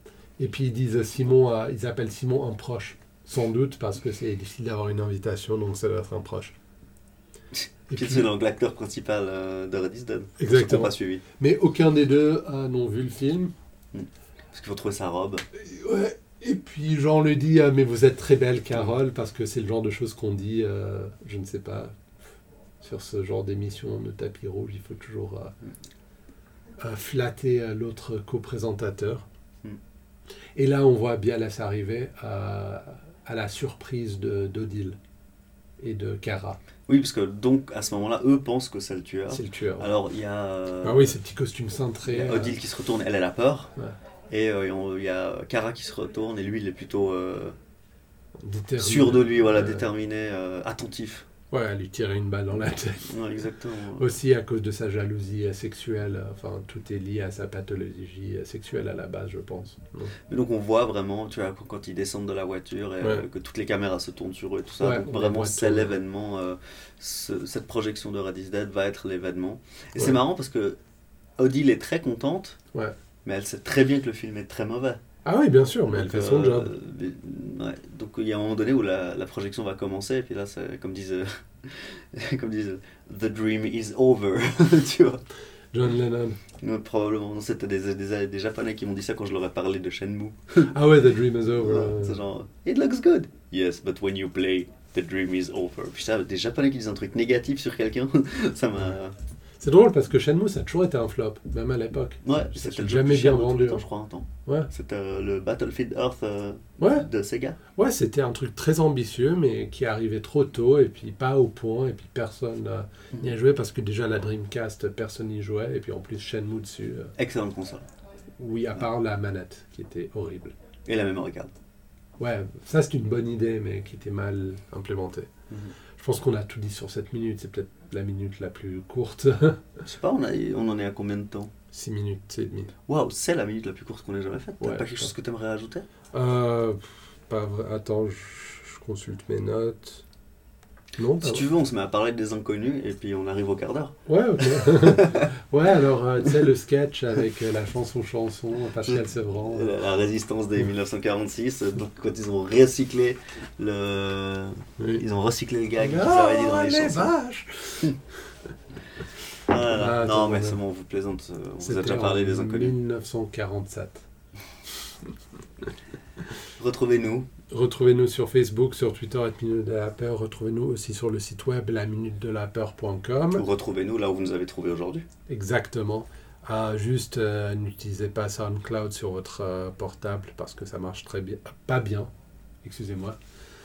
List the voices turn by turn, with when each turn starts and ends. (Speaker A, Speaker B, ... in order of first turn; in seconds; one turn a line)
Speaker A: 0.4-6.5
Speaker B: 7.5-11.2
Speaker A: 7.9-8.3
Speaker A: 10.4-13.5
Speaker B: 13.9-15.4
Speaker A: 15.6-21.9
Speaker A: 22.8-25.5
Speaker A: 26.8-29.2
Speaker A: 30.6-35.0
Speaker A: 35.8-36.6
Speaker B: 36.9-41.2
Speaker A: 39.3-39.9
Speaker A: 40.8-42.6
Speaker B: 42.1-43.7
Speaker B: 44.3-47.5
Speaker A: 48.4-49.8
Speaker B: 48.8-51.3
Speaker A: 51.5-53.2
Speaker B: 53.1-54.1
Speaker A: 54.0-60.1
Speaker B: 60.3-70.8
Speaker A: 64.8-65.9
Speaker B: 71.4-72.6
Speaker B: 73.2-75.0
Speaker A: 75.2-76.7
Speaker B: 75.9-85.2
Speaker A: 85.7-86.4
Speaker B: 86.6-90.7
Speaker A: 90.6-92.2
Speaker B: 91.5-99.1
Speaker A: 99.6-103.8
Speaker B: 102.2-107.6
Speaker A: 106.8-107.1
Speaker A: 107.8-117.1
Speaker B: 117.2-117.8
Speaker A: 118.4-120.5
Speaker B: 120.9-121.5
Speaker A: 122.2-125.3
Speaker B: 125.5-125.7
Speaker A: 126.0-129.6
Speaker B: 129.8-131.5
Speaker A: 131.7-132.7
Speaker B: 132.9-135.8
Speaker A: 134.6-135.1
Speaker A: 136.1-140.0
Speaker A: 141.0-141.5
Speaker B: 141.2-145.3
Speaker A: 144.1-149.8
Speaker B: 148.8-157.1
Speaker A: 155.8-158.0
Speaker B: 159.5-162.7
Speaker A: 159.7-160.6
Speaker A: 161.6-164.1
Speaker B: 166.6-167.3
Speaker A: 167.5-173.4
Speaker B: 173.3-175.0
Speaker A: 175.3-182.1
Speaker A: 182.6-183.2